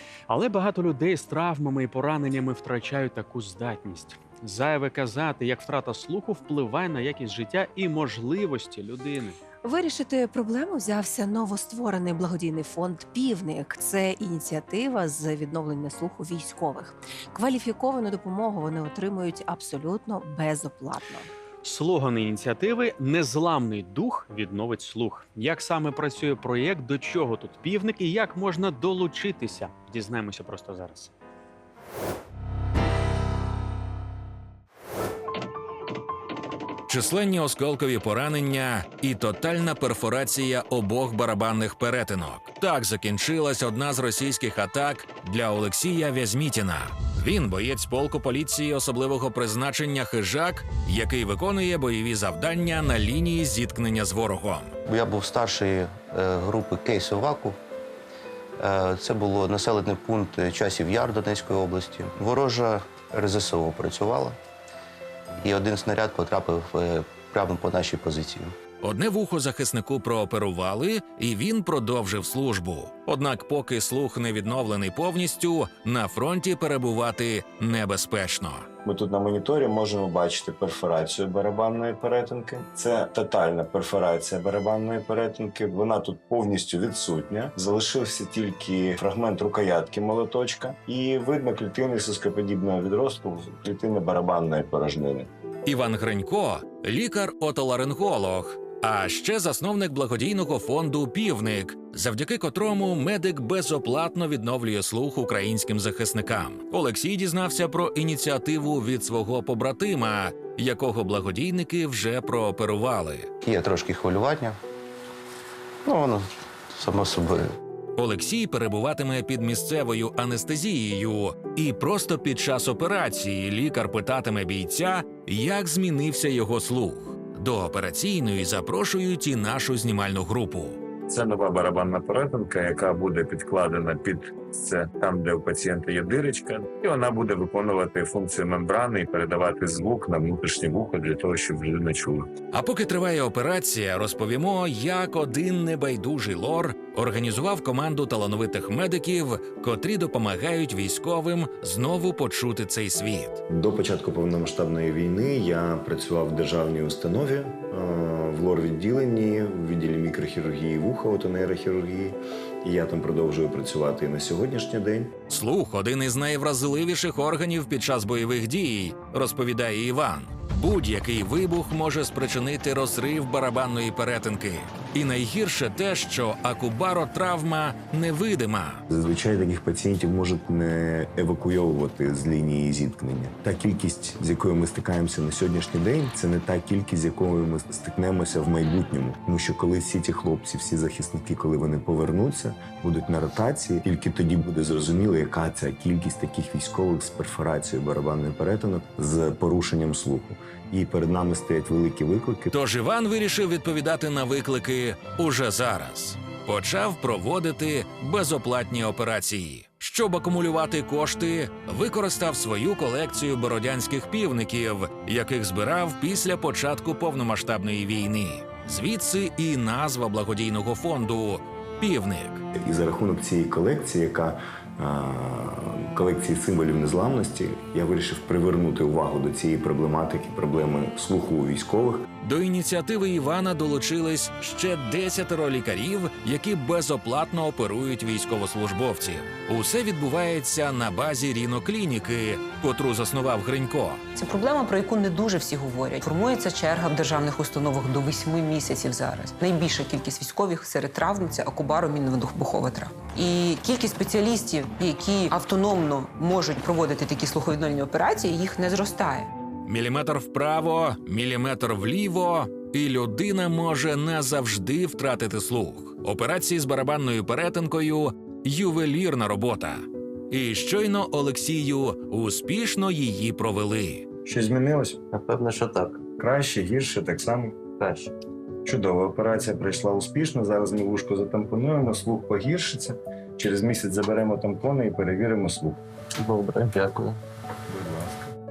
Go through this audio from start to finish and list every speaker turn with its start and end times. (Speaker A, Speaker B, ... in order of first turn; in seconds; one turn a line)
Speaker A: 0.3-9.4
Speaker B: 9.6-21.3
Speaker A: 21.6-31.1
Speaker C: 36.9-54.7
Speaker D: 54.9-57.6
Speaker D: 58.6-64.4
Speaker D: 65.4-68.5
Speaker C: 68.8-78.7
Speaker E: 78.8-95.3
Speaker C: 95.7-113.3
Speaker D: 113.4-114.6
Speaker D: 115.8-117.5
Speaker C: 118.0-130.8
Speaker E: 131.1-142.3
Speaker C: 142.5-153.4
Speaker E: 153.5-165.1
Speaker C: 165.3-178.8
Speaker E: 178.9-202.5
Speaker C: 202.5-222.4
Speaker E: 222.6-232.0
Speaker C: 232.2-244.0
Speaker F: 244.1-259.3
Speaker C: 259.6-274.1
Speaker E: 274.2-275.0
Speaker D: 275.1-276.0
Speaker E: 276.1-278.1
Speaker E: 278.6-288.3